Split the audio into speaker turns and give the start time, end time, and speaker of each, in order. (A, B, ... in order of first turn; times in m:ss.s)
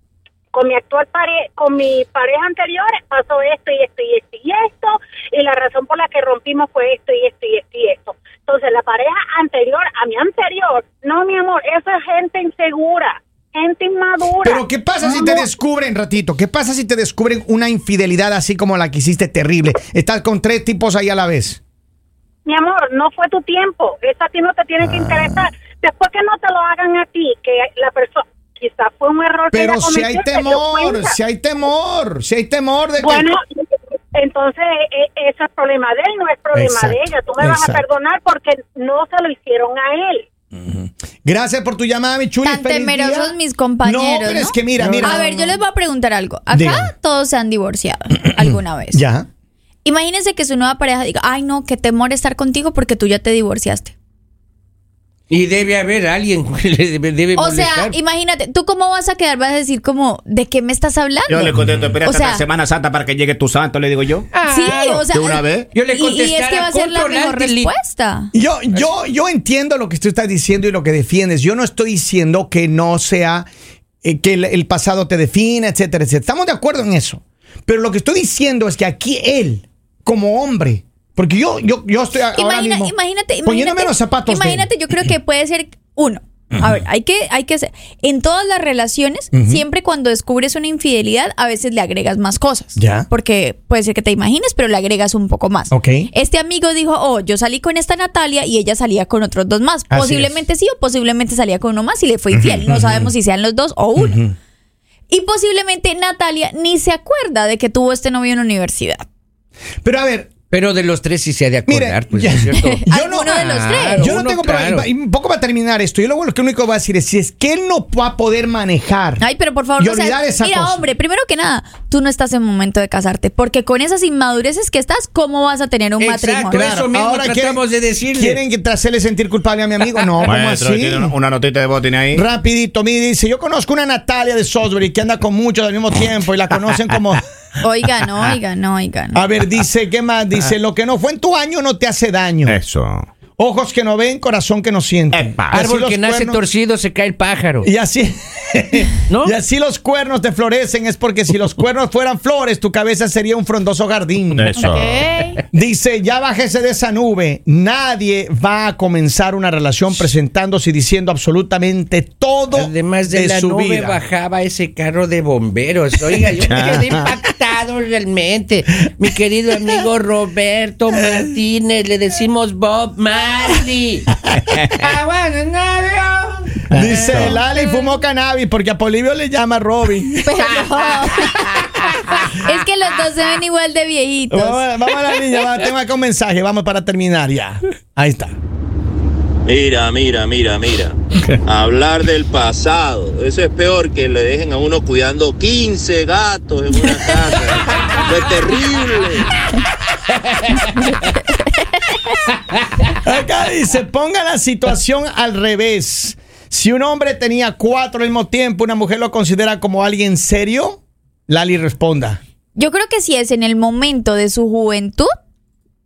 0:00.5-0:15.5 A
0:14.4-0:21.6 B
0:22.5-0:31.1 A
0:24.8-0:25.5 B
0:29.5-0:33.3 B
0:33.0-0:33.4 A
0:34.1-0:40.3 A
0:36.5-0:37.8 B
0:40.5-0:45.6 B
0:42.4-0:49.0 C
0:44.8-0:45.2 D
0:46.5-0:46.9 B
0:48.2-0:49.3 B
0:49.8-0:53.9 C
0:55.3-0:58.0 D
0:57.4-1:02.4 C
1:01.3-1:05.7 E
1:04.3-1:05.0 D
1:04.4-1:08.3 C
1:05.8-1:07.7 D
1:08.3-1:13.5 B
1:14.0-1:24.7 B
1:22.3-1:44.2 C
1:29.3-1:29.6 B
1:32.8-1:33.1 B
1:35.7-1:36.1 B
1:39.9-1:40.4 B
1:42.6-1:43.1 B
1:44.0-1:44.4 B
1:45.1-1:49.1 C
1:49.8-1:50.3 B
1:50.5-1:54.9 D
1:51.7-1:59.2 B
1:52.7-1:54.2 C
1:59.2-2:06.6 C
1:59.8-2:00.8 B
2:06.0-2:08.4 D
2:06.5-2:07.6 B
2:08.1-2:11.1 B
2:10.2-2:12.2 E
2:12.1-2:17.2 B
2:17.6-2:19.2 C
2:19.1-2:22.6 B
2:22.5-2:23.1 E
2:23.4-2:26.4 B
2:25.1-2:25.5 E
2:25.5-2:27.7 D
2:27.6-2:34.6 B
2:29.1-2:29.3 D
2:34.3-2:35.0 E
2:34.6-2:35.4 D
2:34.8-2:35.2 C
2:35.5-2:44.0 B
2:42.5-2:54.2 D
2:46.5-2:47.1 E
2:51.0-2:51.3 B
2:54.4-2:54.8 E
2:54.7-2:57.3 D
2:56.7-2:57.4 E
2:56.7-3:00.6 B
2:57.3-2:57.9 C
3:00.2-3:05.2 C
3:04.3-3:08.4 B
3:09.5-3:11.0 F
3:11.5-3:19.3 F
3:20.4-3:20.8 D
3:20.6-3:22.2 C
3:23.0-3:32.2 B
3:32.6-3:35.1 C